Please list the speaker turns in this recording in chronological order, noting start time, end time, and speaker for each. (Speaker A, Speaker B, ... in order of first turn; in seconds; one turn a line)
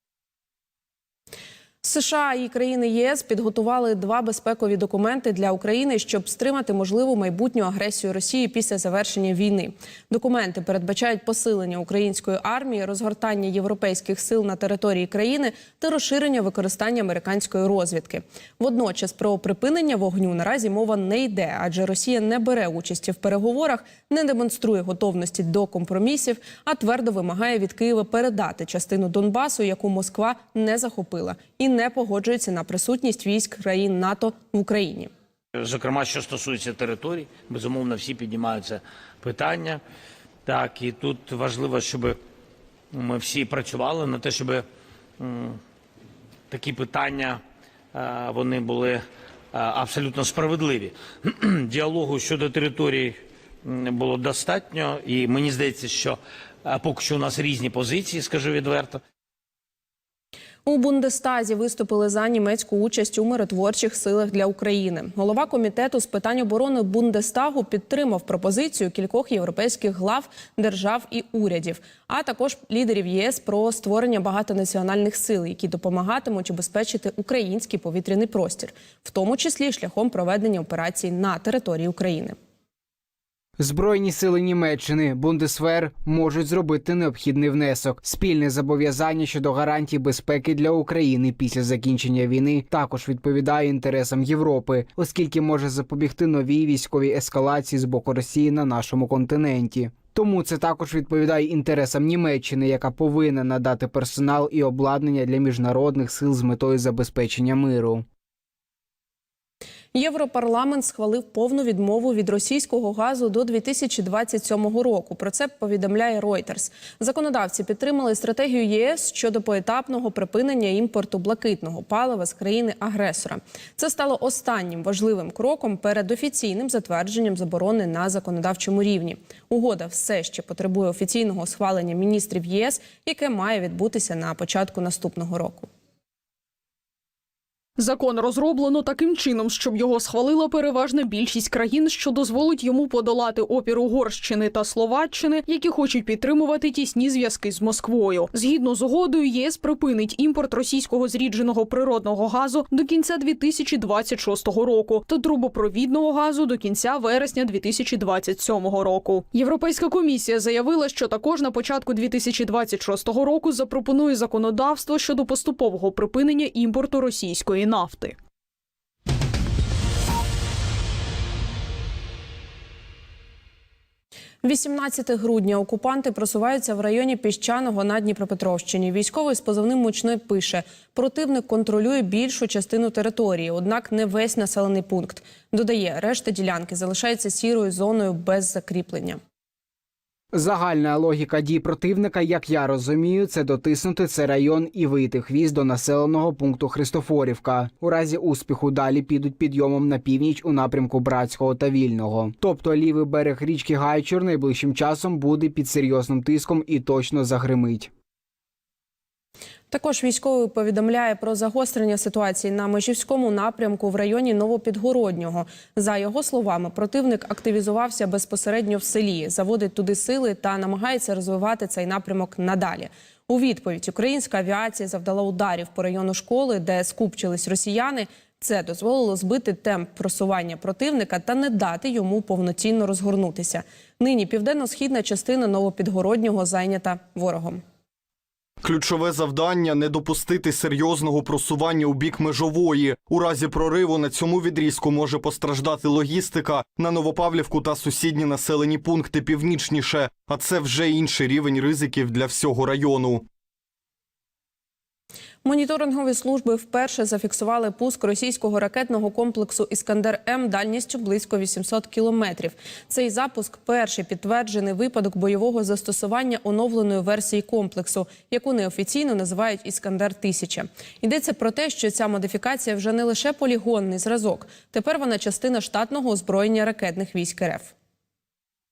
Speaker A: 1.8-35.1
Speaker B: 35.6-39.8
Speaker B: 40.5-42.2
Speaker B: 42.9-44.6
Speaker B: 45.2-45.6
Speaker B: 46.5-47.4
Speaker B: 47.9-59.0
Speaker A: 60.7-82.4
Speaker C: 83.6-108.0
Speaker A: 109.9-135.7
Speaker D: 137.8-168.2
Speaker A: 174.4-189.2
Speaker C: 190.3-207.9
Speaker A: 209.7-237.6
Speaker E: 238.6-253.3
Speaker A: 255.4-277.7